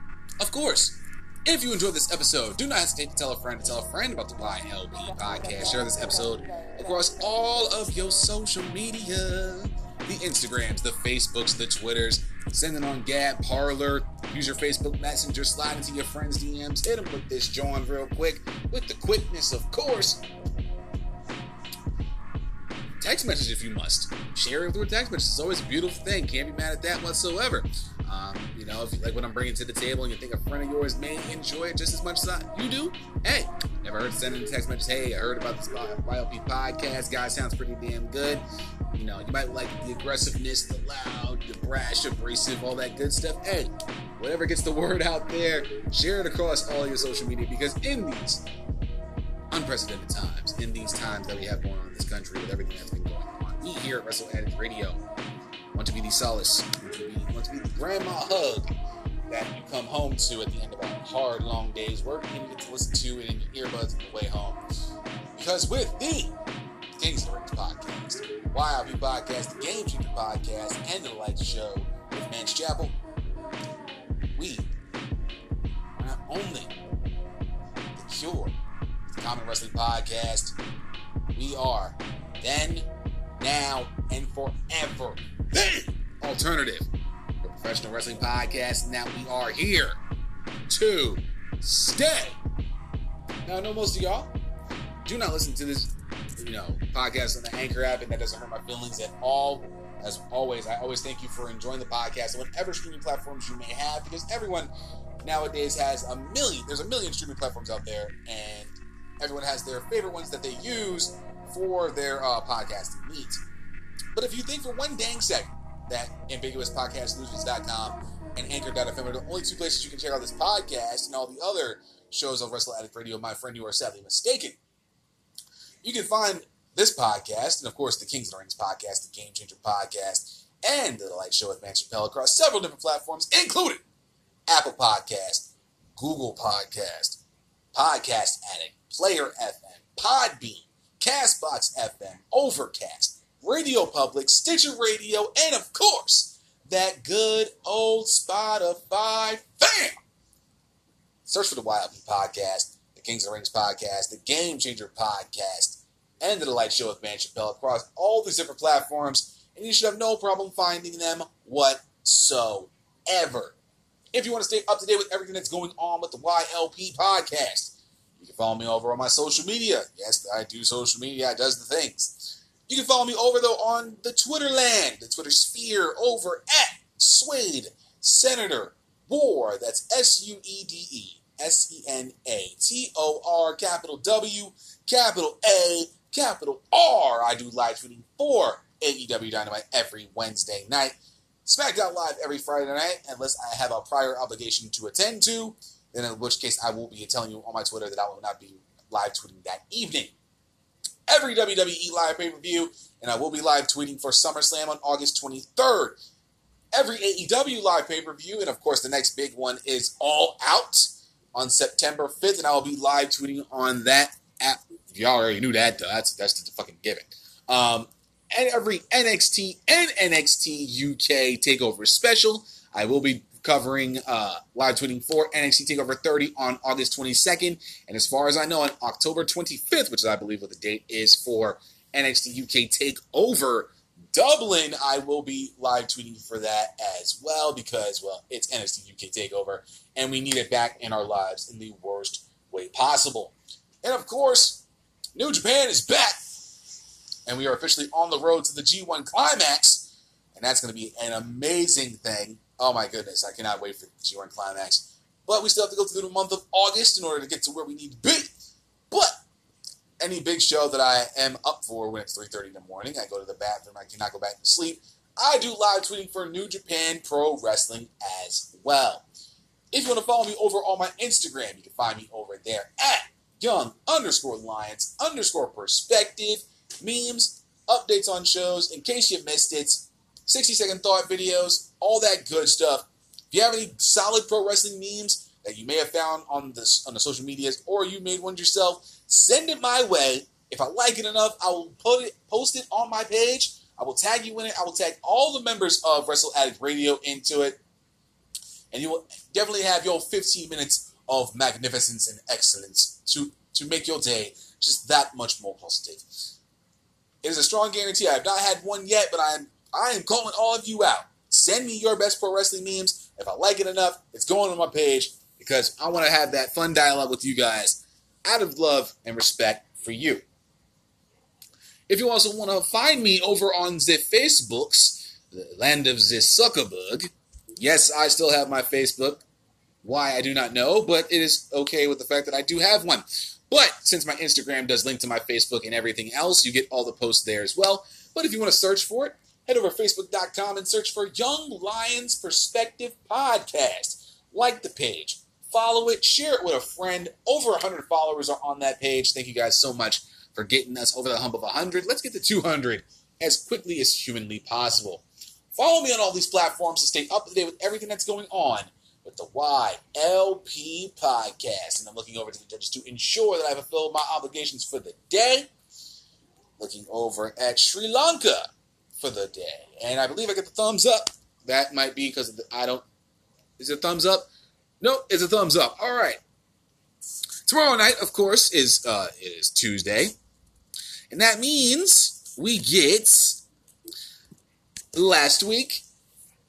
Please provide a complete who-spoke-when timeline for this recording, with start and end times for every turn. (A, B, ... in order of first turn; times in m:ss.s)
0:00.4-0:20.2 A
0:23.0-0:48.4 A
0:49.5-0:55.0 A
0:55.7-0:58.7 A
0:59.3-1:04.6 A
1:05.3-1:06.3 A
1:07.0-1:13.0 A
1:14.3-1:14.7 A
1:16.0-1:16.7 A
1:18.0-1:18.6 A
1:19.2-1:20.6 A
1:21.3-1:22.9 A
1:23.4-1:26.9 A
1:27.4-1:30.0 A
1:30.7-1:32.4 A
1:33.4-1:34.3 A
1:35.0-1:44.7 A
1:45.2-1:53.4 A
1:54.1-2:04.6 A
2:05.8-2:13.8 A
2:14.5-2:17.2 A
2:17.7-2:30.0 A
2:31.2-2:43.6 A
2:44.1-3:20.1 A
3:21.1-3:26.0 A
3:26.7-4:04.6 A
4:05.1-4:06.2 A
4:07.3-4:18.3 A
4:18.9-4:19.2 A
4:20.0-4:29.0 A
4:29.7-4:57.6 A
4:58.7-5:06.3 A
5:07.2-5:20.2 A
5:21.9-5:29.2 A
5:29.8-5:55.0 A
5:55.5-6:05.5 A
6:06.6-6:12.8 A
6:13.6-6:14.3 A
6:14.8-6:16.2 A
6:17.5-6:20.1 A
6:21.1-6:23.4 A
6:24.9-6:25.8 A